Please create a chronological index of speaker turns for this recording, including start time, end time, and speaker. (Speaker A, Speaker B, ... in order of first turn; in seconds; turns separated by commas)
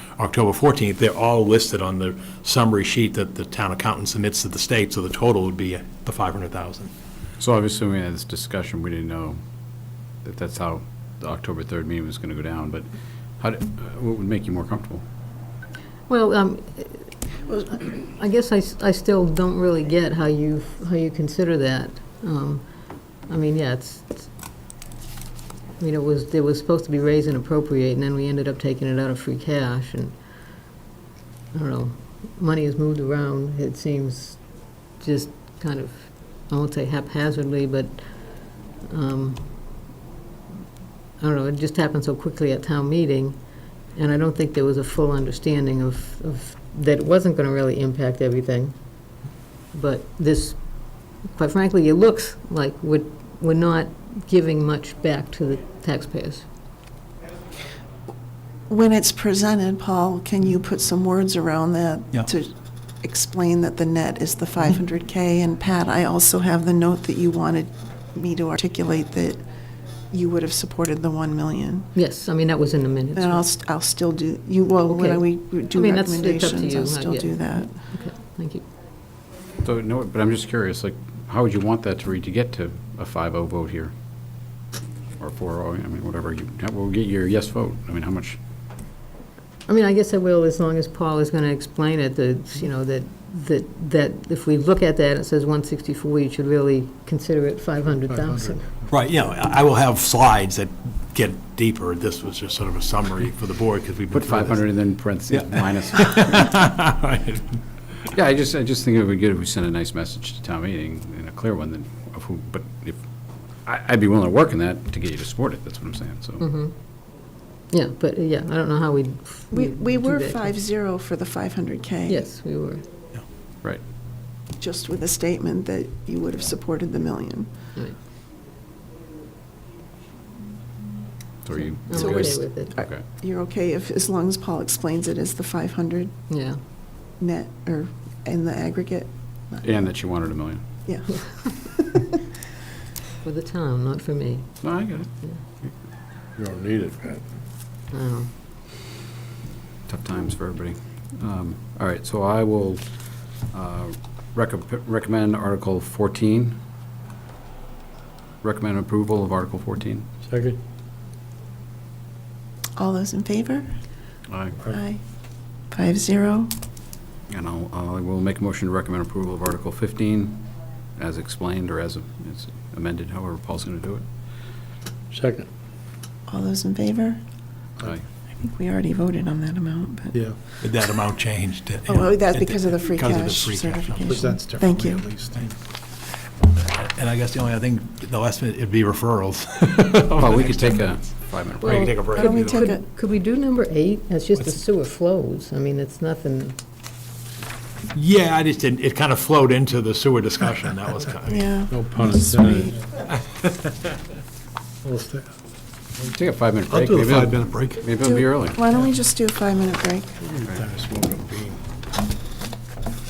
Speaker A: 0.2-6.9, Speaker B: 7.4-9.4, Speaker B: 10.2-12.9, Speaker B: 13.4-15.0, Speaker C: 16.1-17.1, Speaker C: 17.7-22.7, Speaker C: 23.3-24.3, Speaker C: 25.8-30.2, Speaker C: 31.5-34.4, Speaker C: 35.0-39.8, Speaker C: 41.2-43.4, Speaker C: 44.0-48.8, Speaker C: 49.7-56.5, Speaker D: 58.7-69.4, Speaker D: 70.1-71.9, Speaker C: 72.0-73.4, Speaker D: 73.2-77.7, Speaker C: 74.9-78.7, Speaker B: 79.6-83.9, Speaker B: 85.2-88.4, Speaker C: 89.7-98.7, Speaker A: 98.9-104.8, Speaker B: 104.1-106.7, Speaker A: 105.3-107.6, Speaker B: 108.1-113.0, Speaker B: 113.7-116.4, Speaker C: 116.4-116.8, Speaker C: 117.7-120.5, Speaker D: 119.5-122.3, Speaker C: 122.1-122.8, Speaker D: 124.6-127.5, Speaker B: 131.4-133.0, Speaker C: 131.9-132.8, Speaker D: 131.9-136.1, Speaker C: 136.3-136.6, Speaker D: 137.2-139.7, Speaker B: 139.6-140.6, Speaker D: 140.9-142.1, Speaker C: 143.2-144.6, Speaker B: 144.6-145.1, Speaker E: 146.4-147.2, Speaker C: 147.9-148.3, Speaker B: 149.9-152.8, Speaker B: 153.5-156.6, Speaker B: 158.4-160.1, Speaker E: 160.3-160.6, Speaker D: 162.8-163.7, Speaker B: 164.3-164.6, Speaker D: 164.7-165.0, Speaker D: 165.7-166.5, Speaker B: 167.3-174.1, Speaker E: 175.1-175.5, Speaker D: 176.3-177.2, Speaker D: 178.4-180.3, Speaker A: 180.6-184.1, Speaker D: 181.9-185.1, Speaker E: 184.1-185.5, Speaker A: 186.5-191.0, Speaker B: 190.2-192.2, Speaker A: 191.6-192.6, Speaker D: 192.1-192.8, Speaker C: 192.2-196.6, Speaker A: 197.9-201.6, Speaker D: 201.3-202.7, Speaker E: 201.7-202.8, Speaker E: 204.8-205.3, Speaker B: 206.0-208.6, Speaker A: 206.7-207.8, Speaker D: 207.9-210.2, Speaker E: 210.5-211.6, Speaker A: 210.7-211.4